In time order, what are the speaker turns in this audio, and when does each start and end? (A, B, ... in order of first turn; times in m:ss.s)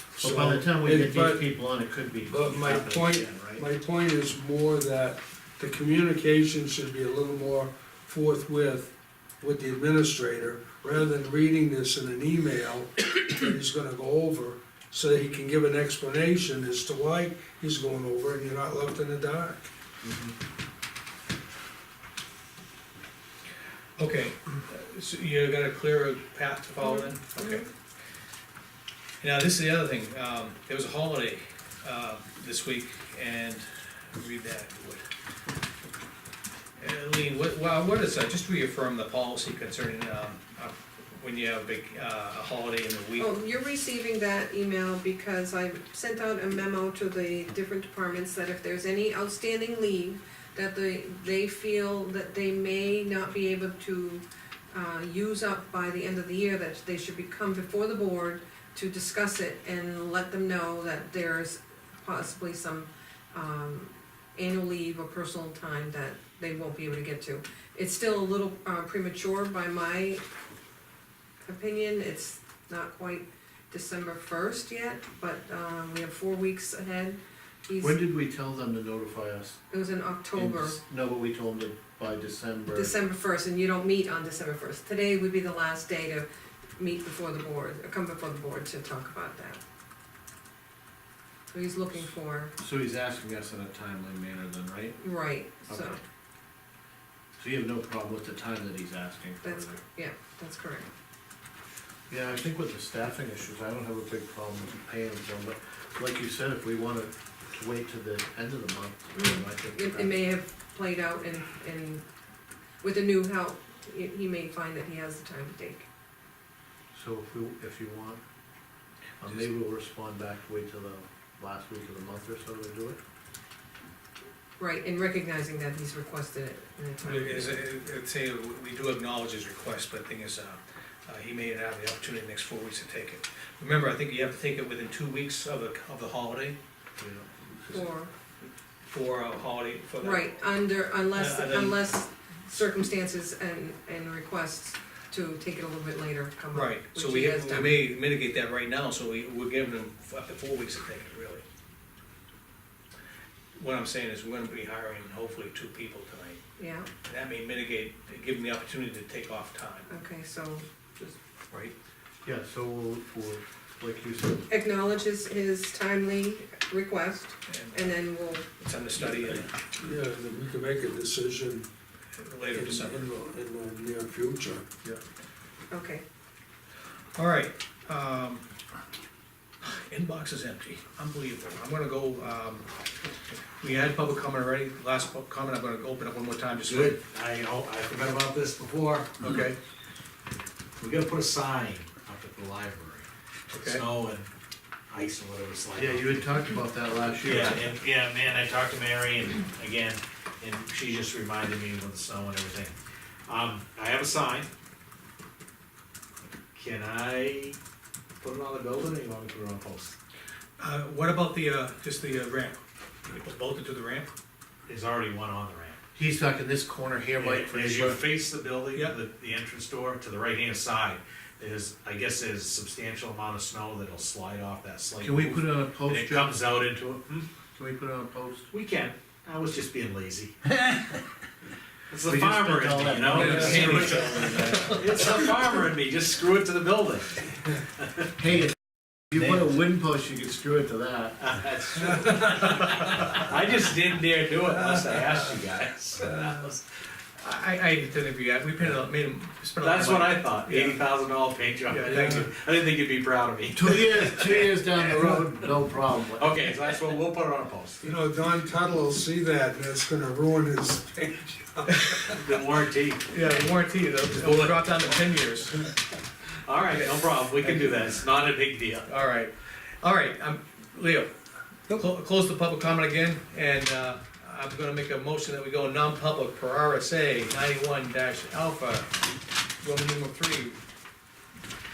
0:00.2-0:00.6 A
0:00.2-0:03.6 B
0:00.3-0:01.4 C
0:02.3-0:12.9 C
0:13.0-0:13.5 A
0:13.5-0:19.7 C
0:20.0-0:20.3 B
0:24.0-0:27.6 D
0:26.8-0:27.7 A
0:29.2-0:35.0 D
0:36.8-0:43.3 D
0:43.2-1:10.2 A
1:11.4-1:18.0 A
1:17.8-1:19.6 B
1:19.7-1:20.8 A
1:20.3-1:23.0 B
1:22.7-1:29.6 A
1:31.5-1:32.5 A
1:32.6-1:35.0 B
1:35.0-1:36.0 A
1:35.7-1:36.0 B
1:37.4-1:39.8 B
1:39.4-1:40.9 A
1:42.1-1:50.3 B
1:49.2-1:52.0 A
1:52.8-1:55.8 A
1:56.9-1:58.2 B
1:59.2-2:03.0 B
2:04.6-2:07.4 A
2:07.0-2:16.6 D
2:07.1-2:07.5 C
2:17.0-2:17.3 B
2:17.7-2:18.1 A
2:18.9-2:20.3 D
2:20.0-2:27.7 A
2:21.0-2:21.7 C
2:21.1-2:21.8 D
2:26.5-2:27.6 C
2:26.5-2:31.4 D
2:33.5-2:36.4 D
2:36.6-2:36.9 A
2:37.0-2:39.9 D
2:39.9-2:41.1 A
2:42.2-2:44.5 B
2:44.5-2:48.4 A
2:47.5-2:49.5 D
2:49.8-2:51.7 C
2:52.2-2:53.1 D
2:52.5-2:54.6 C
2:55.7-2:56.0 A
2:57.2-2:58.4 D
2:59.6-3:02.6 D
3:03.6-3:07.0 D
3:06.7-3:09.3 E
3:09.2-3:09.6 D
3:10.8-3:13.1 E
3:13.5-3:13.8 D
3:13.6-3:14.3 E
3:14.9-3:16.3 E
3:15.7-3:17.6 B
3:17.2-3:22.7 E
3:23.3-3:24.5 E
3:26.5-3:27.6 E
3:28.2-3:29.9 E
3:30.6-3:34.1 D
3:34.7-3:35.8 E
3:35.9-3:38.0 B
3:37.2-3:47.3 E
3:45.0-3:46.4 B
3:47.5-3:48.5 B
3:48.5-3:50.3 E
3:50.6-3:51.0 B
3:51.9-3:57.9 E
3:52.0-3:54.9 B
3:53.1-3:54.0 D
3:58.2-3:58.5 B
3:59.1-4:01.2 B
3:59.1-3:59.4 E
4:01.2-4:06.6 E
4:07.2-4:10.8 D
4:09.6-4:15.3 E
4:11.7-4:12.3 D
4:13.5-4:16.4 B
4:16.2-4:18.0 E
4:17.9-4:20.8 C
4:18.7-4:19.0 A
4:20.3-4:21.9 A
4:21.7-4:22.1 D
4:22.1-4:23.1 E
4:23.1-4:25.6 D
4:24.2-4:24.6 E
4:26.4-4:28.9 E
4:27.4-4:27.7 D
4:28.9-4:31.1 D
4:31.7-4:38.9 D
4:39.6-4:40.6 D